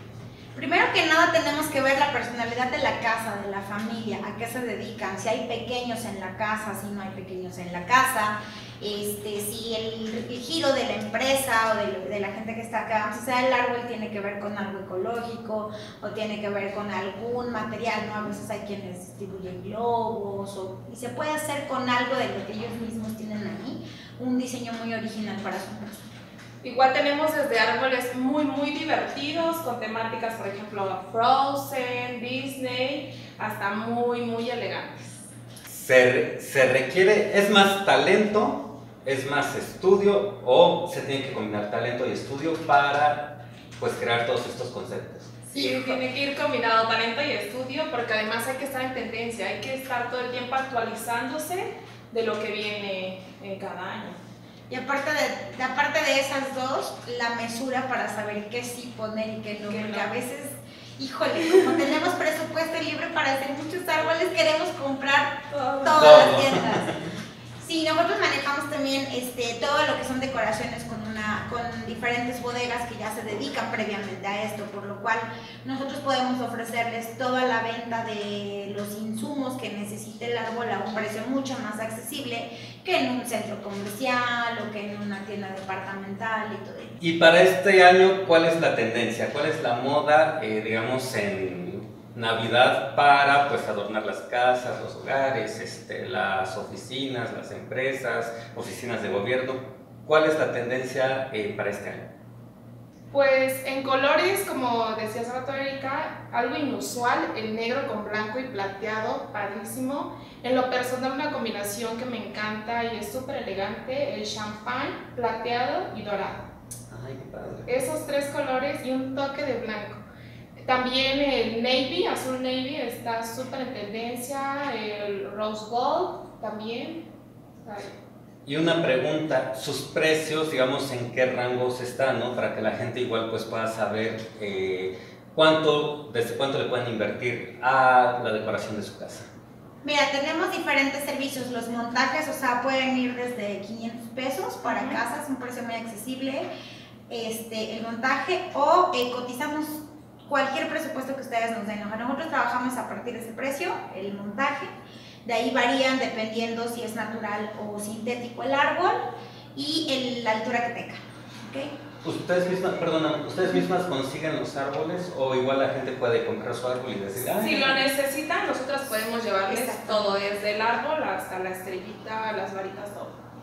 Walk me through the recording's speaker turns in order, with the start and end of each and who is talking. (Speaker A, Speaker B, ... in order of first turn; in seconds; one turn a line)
Speaker A: 0.5-26.0
Speaker B: 26.6-35.3
Speaker C: 35.6-45.3
Speaker B: 45.5-54.2
Speaker A: 54.7-67.0
Speaker B: 59.6-60.1
Speaker B: 61.4-61.9
Speaker B: 65.5-66.3
Speaker C: 66.0-67.0
Speaker A: 67.6-87.0
Speaker C: 87.0-102.1
Speaker B: 103.1-116.4
Speaker C: 116.9-117.8
Speaker B: 117.7-120.0
Speaker B: 120.6-127.0
Speaker B: 127.6-127.9
Speaker C: 128.4-139.3
Speaker A: 139.8-146.5
Speaker B: 144.6-145.0
Speaker A: 147.1-154.7
Speaker A: 155.2-158.9
Speaker A: 159.5-161.7
Speaker C: 162.0-167.8
Speaker B: 167.3-173.2
Speaker A: 169.5-170.2